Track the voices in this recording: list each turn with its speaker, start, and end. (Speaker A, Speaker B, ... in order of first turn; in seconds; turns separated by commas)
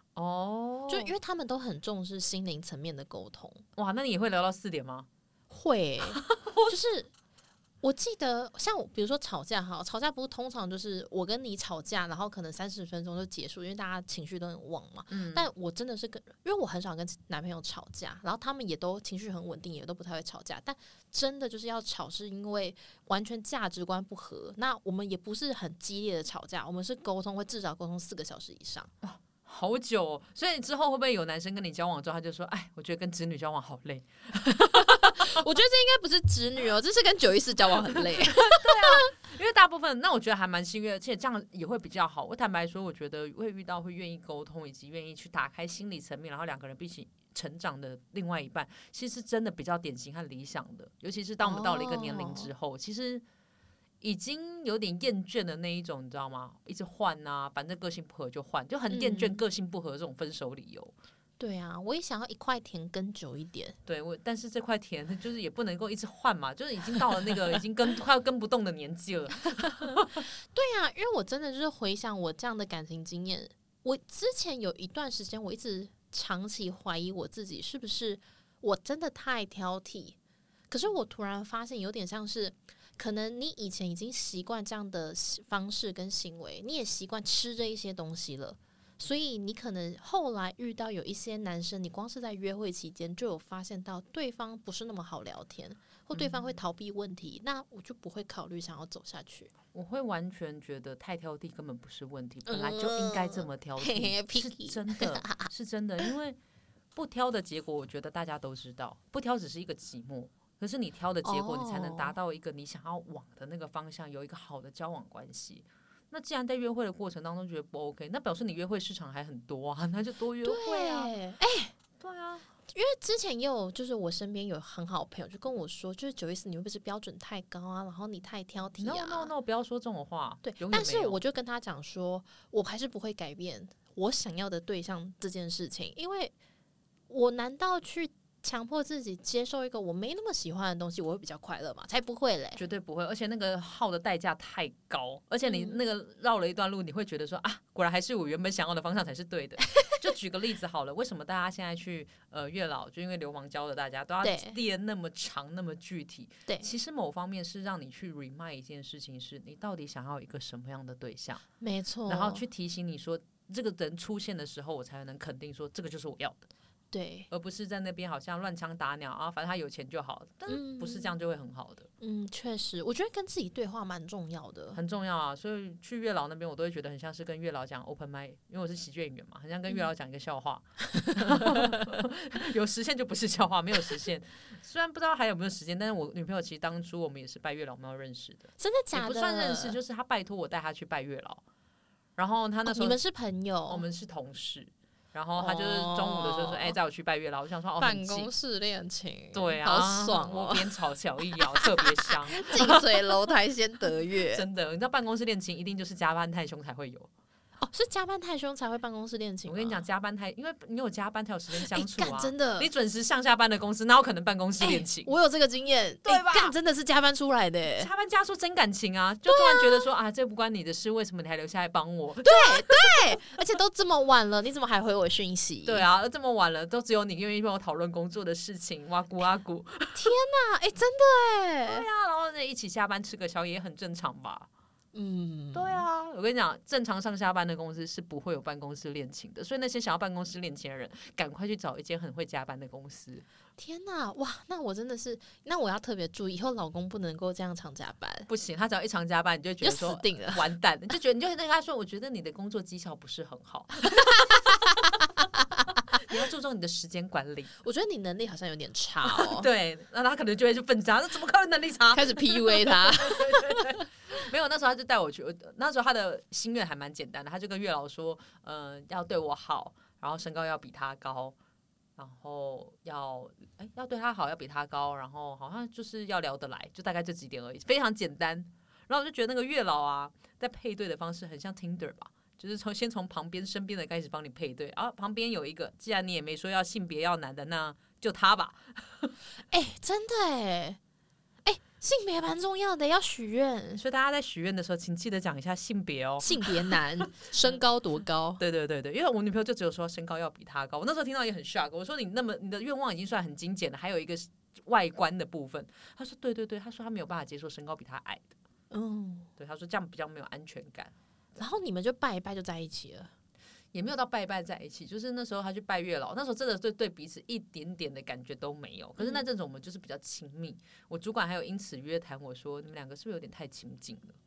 Speaker A: 0.1-1.1, Speaker B: 0.9-3.6, Speaker A: 3.8-5.1, Speaker B: 5.5-7.1, Speaker A: 6.1-6.7, Speaker B: 7.8-28.9, Speaker A: 15.1-15.5, Speaker A: 29.0-35.4, Speaker B: 34.6-39.1, Speaker A: 38.1-53.2, Speaker B: 51.4-52.5, Speaker A: 54.0-60.9, Speaker B: 58.9-59.4, Speaker B: 61.4-63.8, Speaker A: 63.9-70.2, Speaker B: 69.8-80.2, Speaker B: 80.7-99.5, Speaker A: 96.1-96.5, Speaker A: 99.7-106.4, Speaker B: 102.5-105.5, Speaker A: 106.9-121.1, Speaker B: 111.2-112.1, Speaker B: 120.4-121.7, Speaker A: 122.0-122.5, Speaker B: 122.7-129.3, Speaker A: 128.8-131.2, Speaker B: 130.4-136.3, Speaker B: 137.1-142.6, Speaker A: 142.6-161.4, Speaker B: 145.4-145.8, Speaker B: 154.2-154.6, Speaker B: 161.6-162.4, Speaker A: 162.1-166.5, Speaker B: 166.9-167.3, Speaker A: 167.3-171.9, Speaker B: 170.5-171.1, Speaker B: 172.0-174.8, Speaker A: 174.7-191.4, Speaker B: 181.1-181.8, Speaker B: 188.6-189.8, Speaker A: 192.2-193.0, Speaker B: 192.7-193.8, Speaker A: 193.7-198.3, Speaker B: 195.4-196.8, Speaker B: 197.8-200.7, Speaker A: 199.3-202.8, Speaker B: 201.4-204.4, Speaker A: 204.3-207.1, Speaker B: 207.6-209.8, Speaker A: 209.5-215.1, Speaker B: 211.5-212.7, Speaker B: 214.6-217.9, Speaker A: 216.0-216.5, Speaker A: 217.8-223.2, Speaker B: 219.3-219.9, Speaker B: 222.2-225.9, Speaker A: 225.6-230.1, Speaker B: 229.9-231.9, Speaker A: 231.7-234.5, Speaker B: 234.9-235.8, Speaker A: 235.5-243.2, Speaker B: 243.6-248.3, Speaker A: 248.3-254.2, Speaker B: 249.6-250.4, Speaker B: 253.9-255.0, Speaker A: 255.9-257.5, Speaker B: 257.6-259.5, Speaker A: 259.1-271.3, Speaker B: 261.9-263.8, Speaker A: 272.0-289.1, Speaker B: 289.5-290.8, Speaker B: 291.4-293.8, Speaker A: 293.8-296.8, Speaker B: 296.2-298.4, Speaker A: 298.4-308.3, Speaker B: 308.7-309.3, Speaker A: 309.4-310.9, Speaker B: 311.4-313.1, Speaker A: 313.7-324.2, Speaker B: 319.0-319.2